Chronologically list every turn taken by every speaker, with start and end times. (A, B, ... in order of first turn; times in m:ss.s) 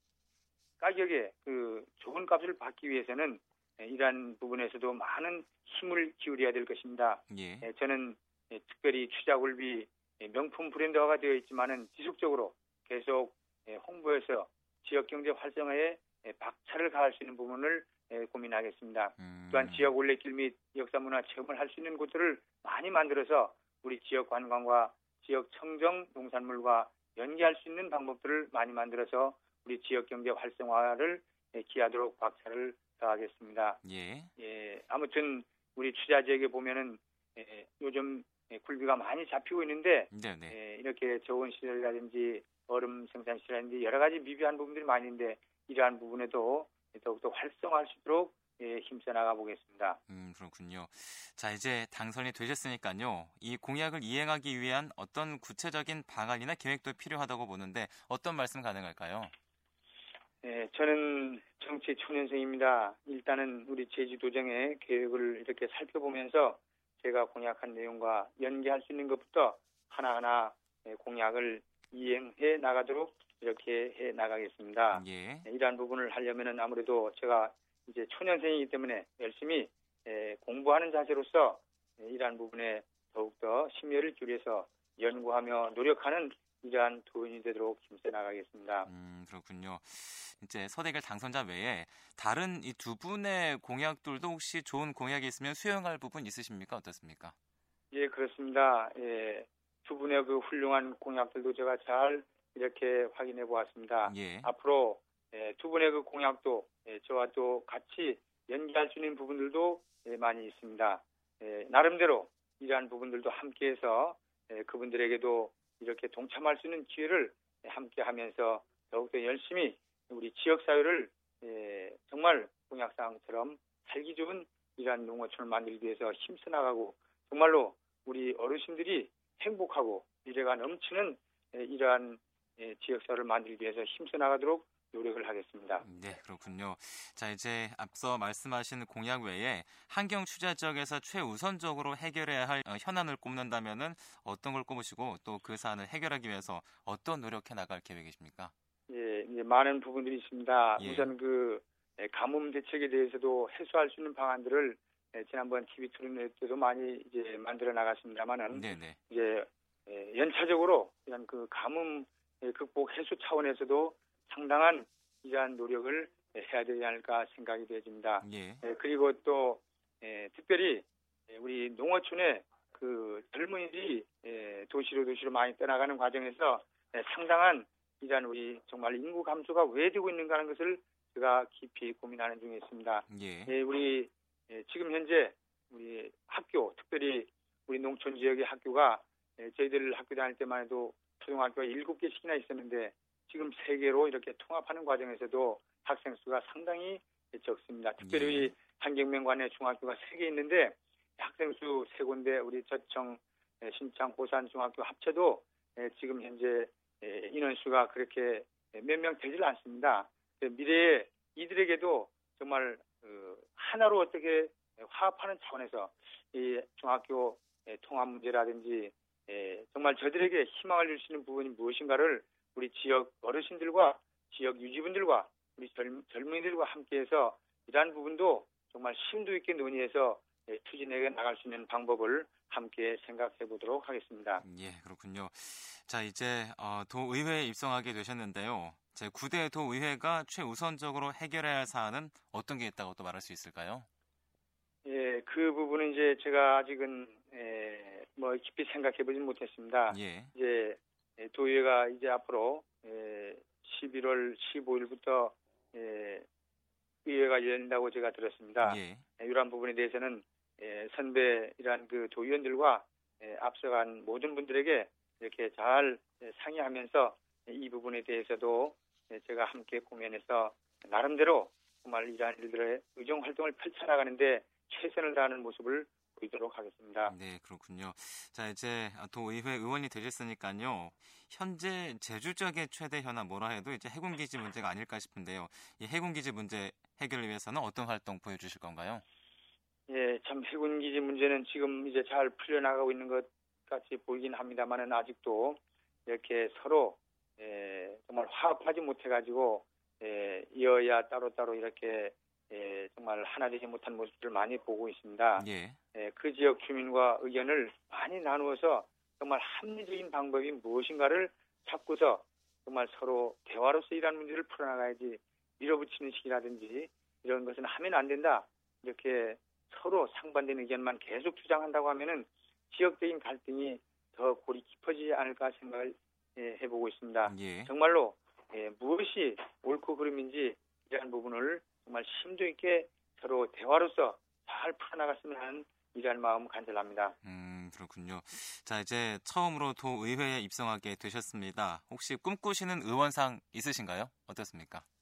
0:00.8-0:33.8 A
0:07.3-0:07.7 B
0:19.2-0:19.9 B
0:33.8-0:34.3 B
0:34.4-0:50.0 A
0:40.1-0:40.6 B
0:50.1-0:59.3 B
1:00.4-1:28.9 A
1:14.9-1:15.4 B
1:28.8-1:37.3 B
1:37.9-2:15.8 A
1:44.0-1:44.5 B
2:15.8-2:28.5 B
2:28.9-3:54.4 A
2:30.8-2:31.1 B
2:38.5-2:39.0 B
2:48.2-2:48.6 B
3:03.1-3:03.5 B
3:18.0-3:18.5 B
3:54.4-4:03.9 B
4:04.8-4:16.2 A
4:09.9-4:10.3 B
4:17.0-4:37.1 A
4:18.6-4:19.0 B
4:37.0-4:49.0 B
4:49.9-5:37.1 A
5:05.4-5:05.8 B
5:27.2-5:27.7 B
5:37.2-5:44.8 B